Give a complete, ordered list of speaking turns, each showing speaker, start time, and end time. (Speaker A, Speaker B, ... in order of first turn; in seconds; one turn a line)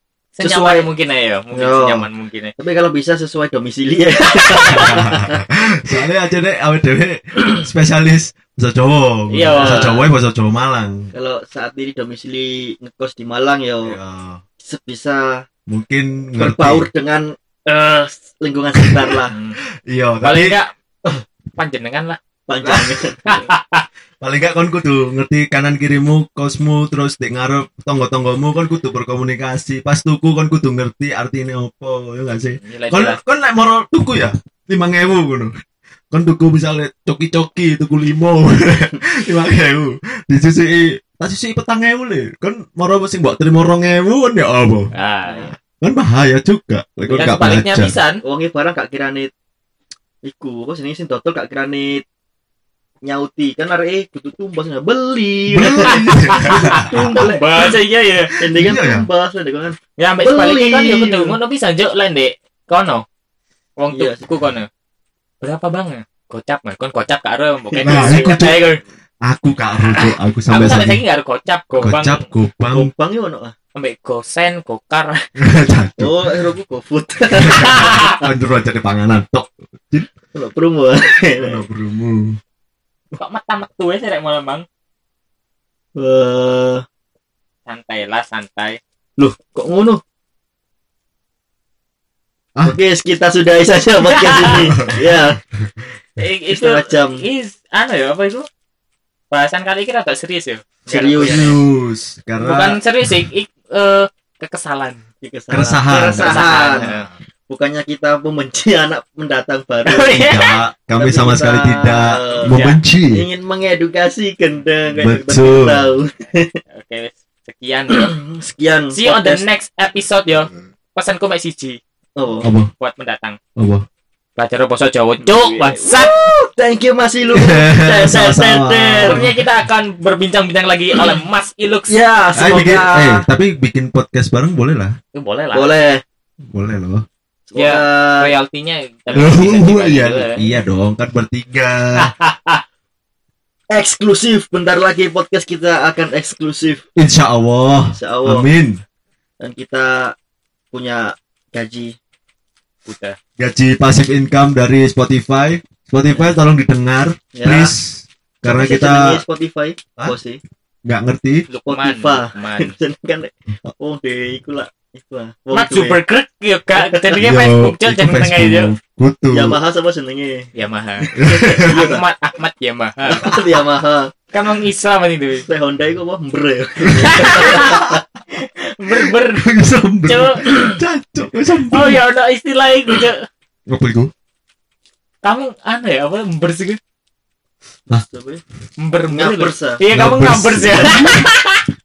Speaker A: 0.4-2.5
Speaker B: 0.4-0.9
Speaker B: 1.5-2.0
Speaker B: 2.6-5.4
Speaker C: 4.6-11.1
Speaker A: 9.3-10.0
Speaker B: 9.5-10.0
Speaker B: 11.1-14.0
Speaker C: 13.8-14.4
Speaker B: 14.6-15.4
Speaker C: 15.7-16.9
Speaker B: 16.4-19.3
Speaker C: 18.8-19.2
Speaker A: 19.3-19.6
Speaker C: 19.9-21.2
Speaker A: 20.2-20.7
Speaker A: 21.6-22.2
Speaker B: 22.5-23.5
Speaker C: 22.6-23.1
Speaker A: 23.3-23.9
Speaker C: 24.2-35.5
Speaker A: 32.6-33.2
Speaker C: 36.1-44.9
Speaker A: 44.9-45.5
Speaker B: 45.3-45.5
Speaker C: 45.8-48.0
Speaker A: 47.1-48.2
Speaker B: 48.2-49.3
Speaker B: 50.2-52.0
Speaker B: 53.0-57.7
Speaker C: 55.5-57.3
Speaker A: 55.7-58.5
Speaker B: 58.4-61.4
Speaker C: 58.5-59.1
Speaker A: 60.0-63.0
Speaker A: 63.8-64.7
Speaker B: 63.9-64.3
Speaker A: 65.4-68.8
Speaker B: 67.7-68.6
Speaker C: 67.8-68.6
Speaker C: 69.2-71.0
Speaker A: 69.8-72.3
Speaker C: 71.8-72.9
Speaker B: 72.7-73.5
Speaker A: 73.8-75.2
Speaker C: 75.4-76.5
Speaker B: 76.0-78.1
Speaker C: 77.4-80.1
Speaker A: 77.5-78.2
Speaker B: 80.3-81.7
Speaker C: 81.4-82.4
Speaker A: 83.2-84.7
Speaker B: 86.0-86.8
Speaker A: 87.7-88.8
Speaker B: 89.2-90.0
Speaker B: 92.6-95.4
Speaker A: 94.0-94.7
Speaker C: 94.8-95.7
Speaker A: 96.2-98.5
Speaker B: 96.5-97.2
Speaker A: 99.3-101.6
Speaker B: 100.9-101.6
Speaker C: 101.2-103.2
Speaker A: 102.4-105.0
Speaker B: 105.2-106.9
Speaker C: 105.5-107.1
Speaker A: 106.1-107.1
Speaker B: 107.5-110.3
Speaker A: 109.8-110.5
Speaker C: 110.1-113.3
Speaker B: 111.0-112.6
Speaker A: 112.2-112.8
Speaker B: 113.1-116.6
Speaker C: 115.0-115.9
Speaker A: 116.7-118.1
Speaker B: 117.9-119.5
Speaker A: 118.9-121.8
Speaker B: 122.2-122.5
Speaker C: 122.4-122.7
Speaker A: 122.8-123.4
Speaker C: 123.6-123.8
Speaker A: 124.4-126.3
Speaker B: 125.2-129.3
Speaker C: 127.3-129.3
Speaker A: 129.0-132.0
Speaker B: 131.9-133.3
Speaker C: 132.3-135.0
Speaker A: 135.1-135.7
Speaker B: 135.5-136.0
Speaker C: 136.5-137.1
Speaker B: 137.5-138.3
Speaker A: 137.6-140.5
Speaker C: 139.1-142.1
Speaker A: 142.0-142.6
Speaker B: 143.7-146.8
Speaker C: 147.0-148.8
Speaker B: 147.9-148.5
Speaker B: 149.4-150.1
Speaker B: 150.7-151.9
Speaker A: 152.9-153.2
Speaker C: 153.4-159.2
Speaker B: 157.3-157.7
Speaker B: 158.4-160.4
Speaker C: 160.9-161.5
Speaker A: 161.5-162.8
Speaker B: 161.7-166.0
Speaker A: 165.5-168.7
Speaker B: 166.8-167.2
Speaker C: 167.2-169.6
Speaker B: 169.3-170.5
Speaker A: 170.6-173.4
Speaker B: 171.0-172.1
Speaker C: 171.2-171.8
Speaker B: 173.1-174.2
Speaker A: 174.3-175.5
Speaker B: 175.5-178.0
Speaker C: 176.9-178.0
Speaker A: 177.0-179.5
Speaker C: 179.3-182.0
Speaker A: 180.1-180.5
Speaker B: 180.5-180.8
Speaker A: 181.7-183.3
Speaker C: 183.7-184.1
Speaker A: 185.2-186.8
Speaker B: 187.9-188.4
Speaker A: 188.8-191.7
Speaker B: 189.1-189.8
Speaker C: 189.9-191.3